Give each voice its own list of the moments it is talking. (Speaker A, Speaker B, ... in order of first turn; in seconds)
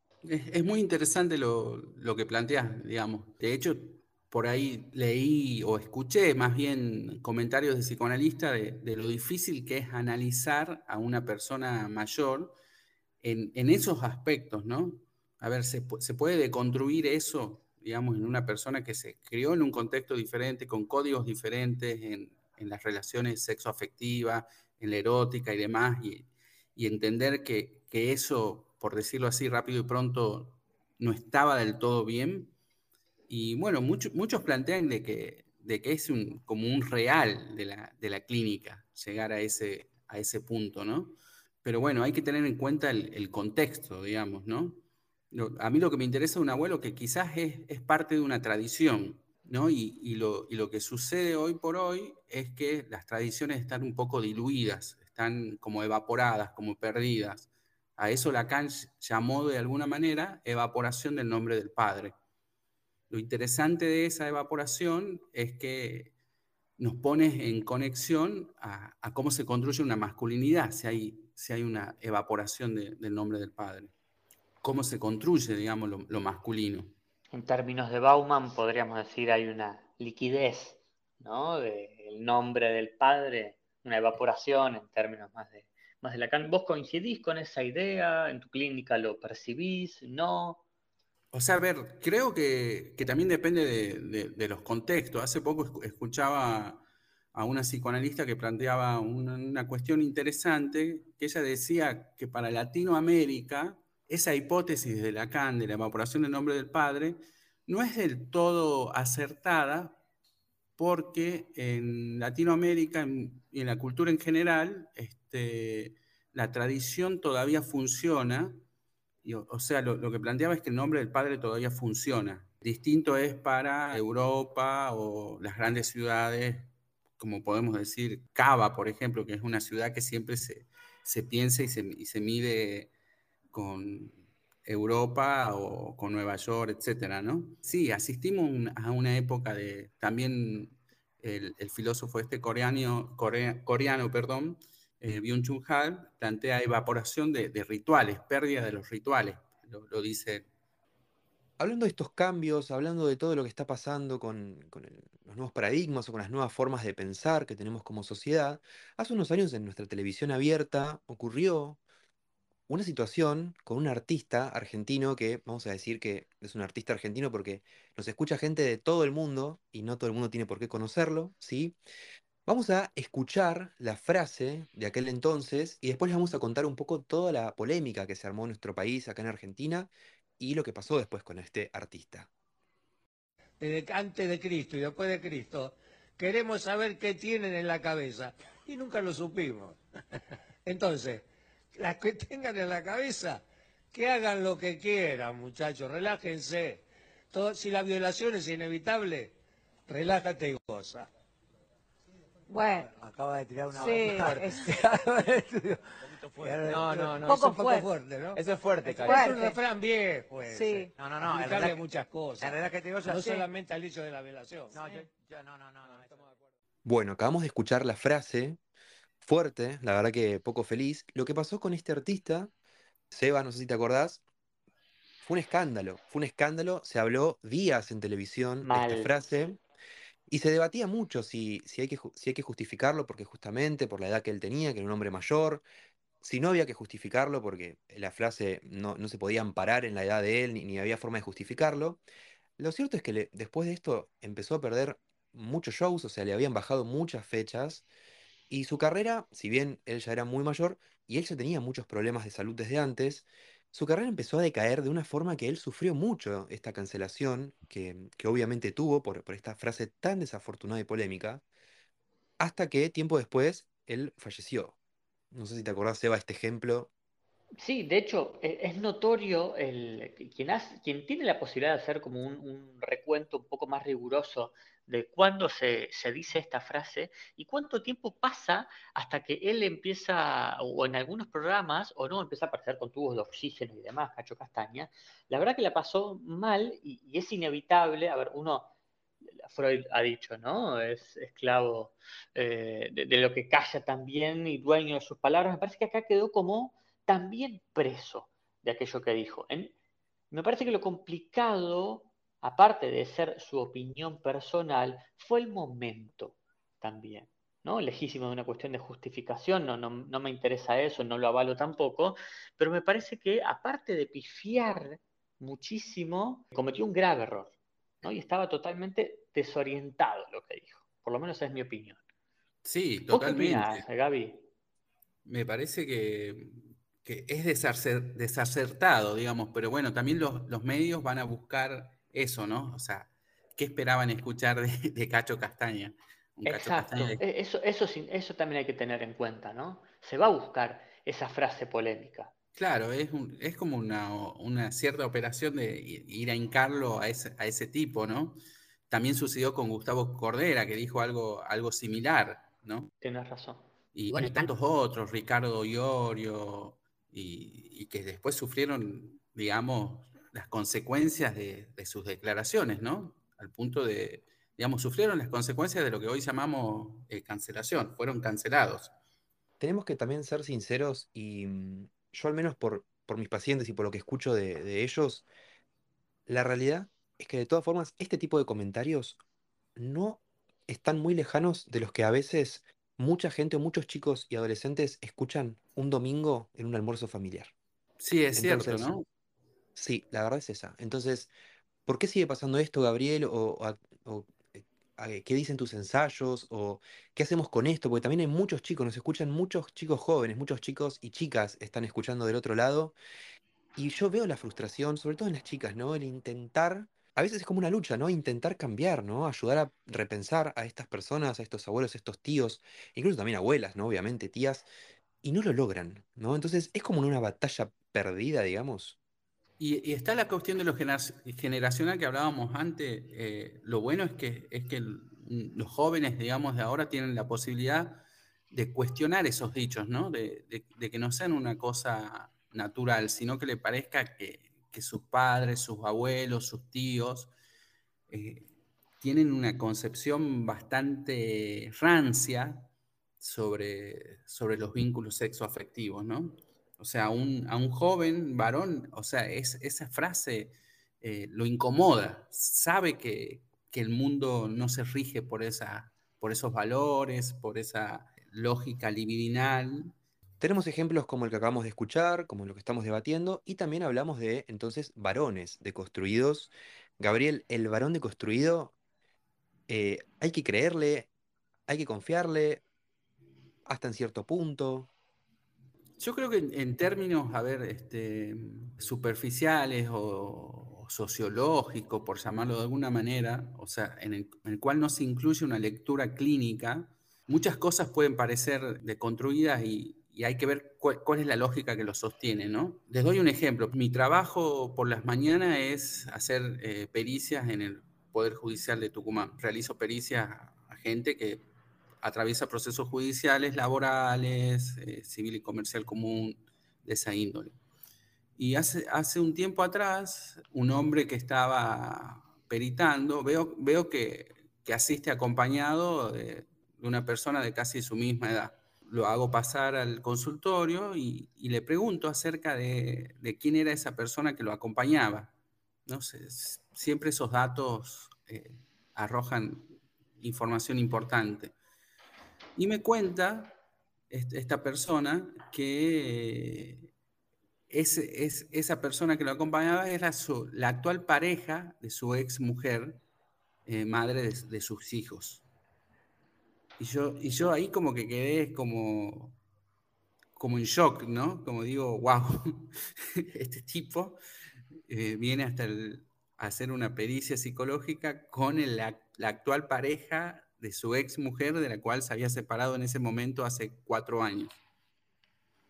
Speaker A: 0.2-12.6, 13.2-32.5, 33.3-62.1, 63.1-66.1, 66.8-73.9, 74.6-76.9, 91.3-110.0, 110.8-118.6, 119.2-132.9, 133.5-150.5, 322.6-323.8, 325.2-337.2, 342.6-348.4, 348.9-352.9, 353.9-368.9, 388.0-389.1, 419.6-437.3, 438.1-442.7, 443.2-459.9, 476.0-501.4, 502.0-507.6, 508.4-525.3, 525.9-531.5, 532.6-533.6, 534.1-536.9, 537.7-543.0, 543.7-545.4, 546.8-549.4, 550.4-554.2, 554.9-564.6
Speaker B: 77.3-90.6, 228.6-229.1, 267.6-288.7, 289.4-299.7, 300.3-322.0, 323.1-324.5, 336.4-342.3, 353.0-353.7
Speaker C: 151.6-161.8, 162.7-171.8, 172.5-182.3, 216.8-218.6, 219.2-222.5, 223.1-224.2, 225.2-229.6, 230.3-235.7, 236.2-242.0, 242.6-247.8, 248.5-261.4, 262.4-264.8, 265.3-266.9, 369.6-375.3, 376.3-379.2, 379.8-387.5, 388.3-388.9, 389.8-391.3, 391.9-403.0, 403.8-414.7, 415.2-419.0, 460.4-468.7, 469.7-471.1, 471.7-472.6, 473.7-474.9
Speaker D: 183.6-189.8, 190.7-199.3, 199.9-201.1, 202.9-214.9
Speaker E: 202.5-202.9, 203.8-204.7, 207.2-207.9, 209.0-209.4, 210.5-210.9
Speaker F: 203.7-204.5, 206.3-207.5, 208.3-209.6, 210.9-211.8, 212.4-213.5, 214.7-216.4